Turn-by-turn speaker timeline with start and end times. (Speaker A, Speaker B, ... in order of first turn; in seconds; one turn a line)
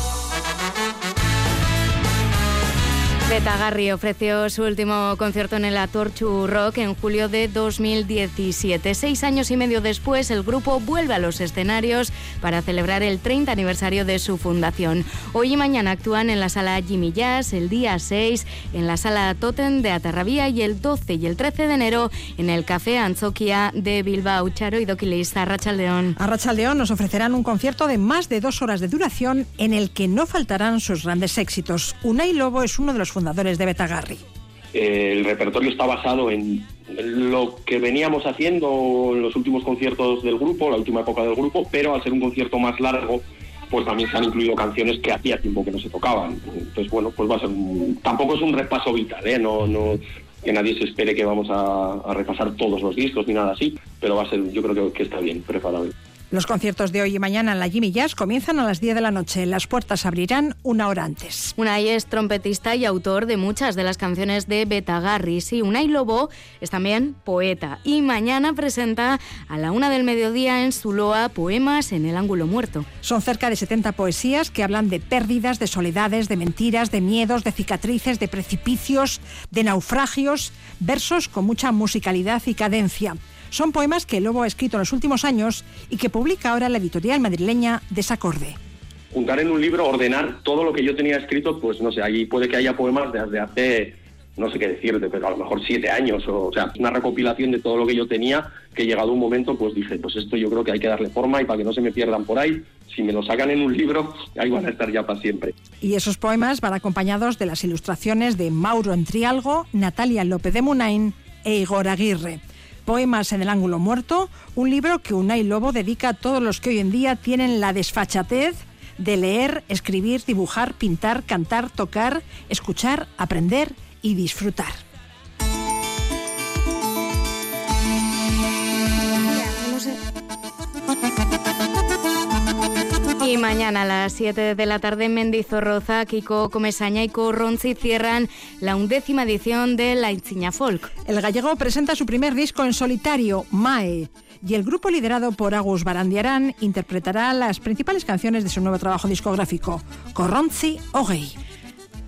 Speaker A: 3.3-26.1
Speaker B: 26.2-34.2
Speaker C: 34.7-55.9
Speaker B: 56.3-61.5
Speaker A: 61.6-72.9
Speaker B: 73.0-88.6
Speaker C: 89.1-105.5
Speaker B: 105.8-124.8
Speaker A: 133.2-140.9
Speaker B: 141.1-151.3